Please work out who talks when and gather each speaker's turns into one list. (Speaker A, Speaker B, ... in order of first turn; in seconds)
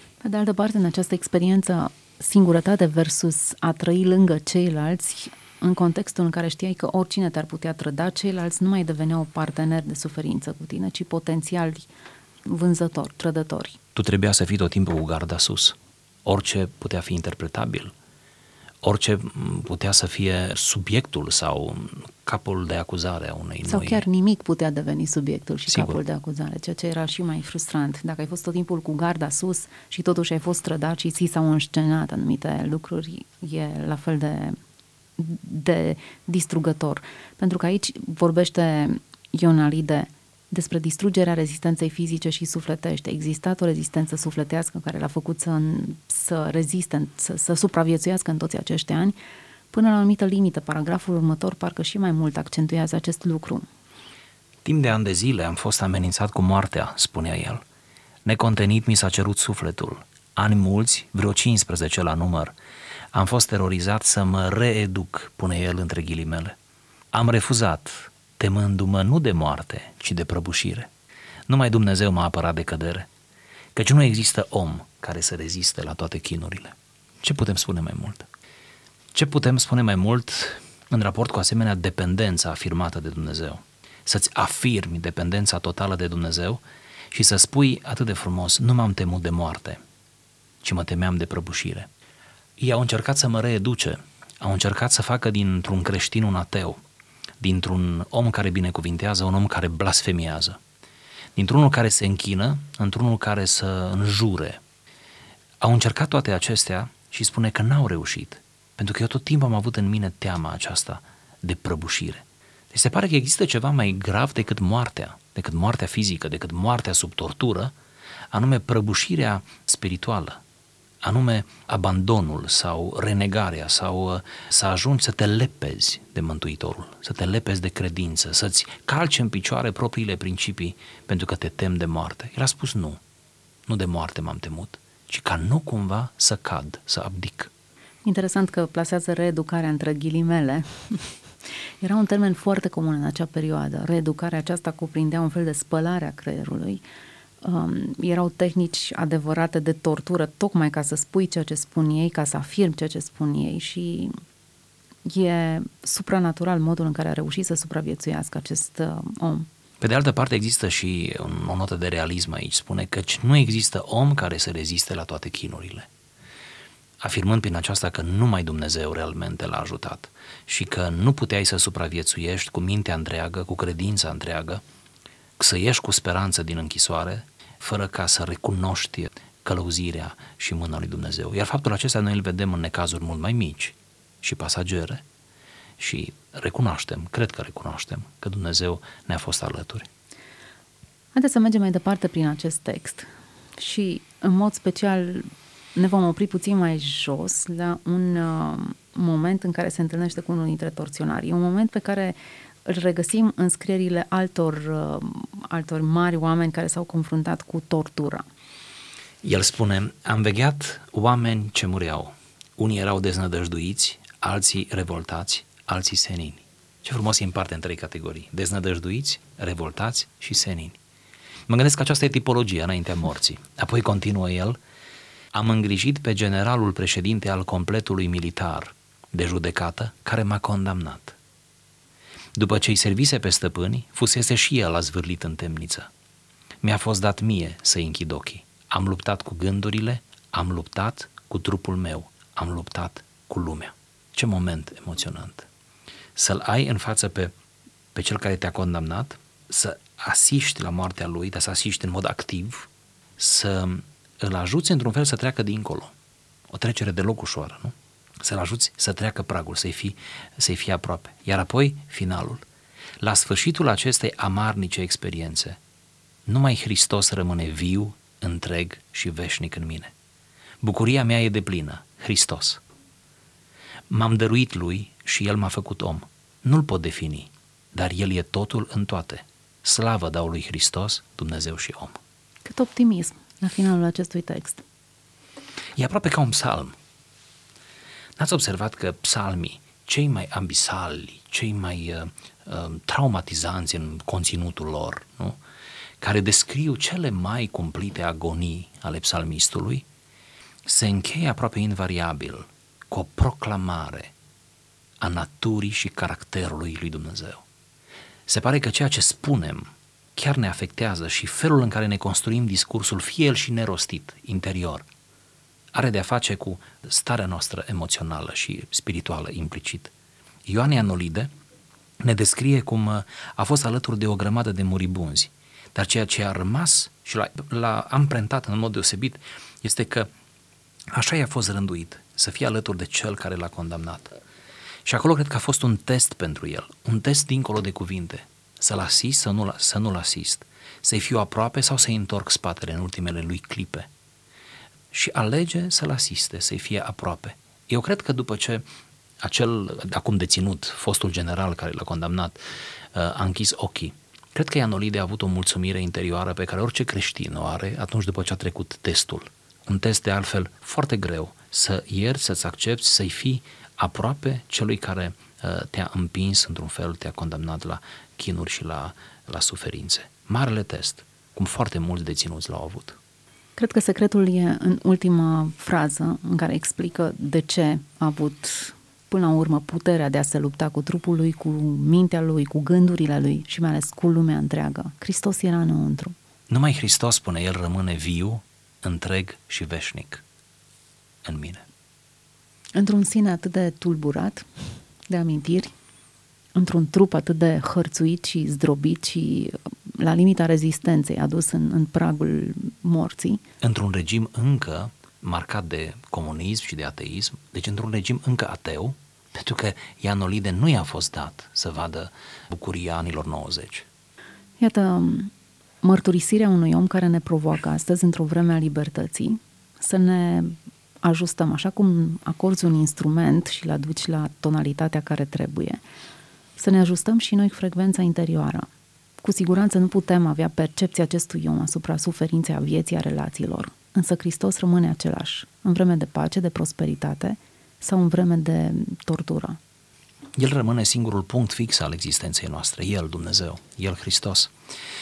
Speaker A: 0.2-11.9, 12.5-13.8, 23.7-34.6, 35.2-49.1, 49.7-53.7, 138.1-141.2, 141.8-146.8, 147.4-154.1, 155.1-159.5, 191.1-208.3, 282.4-284.6, 373.6-386.2, 392.8-395.7, 396.6-403.4, 414.6-425.8, 426.6-428.7, 429.2-439.6
Speaker B: 13.9-17.9, 18.8-24.1, 25.7-26.0, 54.6-57.6, 58.2-62.5, 63.1-66.6, 67.1-70.9, 71.5-73.1, 73.8-78.3, 79.1-89.8, 90.6-91.9, 92.6-96.8, 97.4-100.6, 101.4-104.6, 105.6-117.7, 118.3-120.4, 121.0-133.0, 133.7-137.5, 159.8-165.9, 167.0-174.6, 175.4-185.0, 185.8-189.9, 209.2-220.8, 221.5-224.6, 225.3-231.2, 232.3-235.9, 236.6-245.5, 246.2-247.3, 247.9-255.9, 256.5-262.4, 263.0-265.6, 266.3-269.9, 270.6-272.6, 273.9-281.9, 285.8-286.8, 288.2-295.4, 296.0-299.9, 300.6-304.1, 305.0-307.4, 308.3-314.9, 315.7-319.9, 320.5-321.3, 322.0-330.1, 330.9-334.1, 334.9-343.9, 344.9-348.6, 349.2-352.4, 352.9-373.0, 386.5-390.2, 391.2-391.6, 403.6-413.9, 440.4-444.5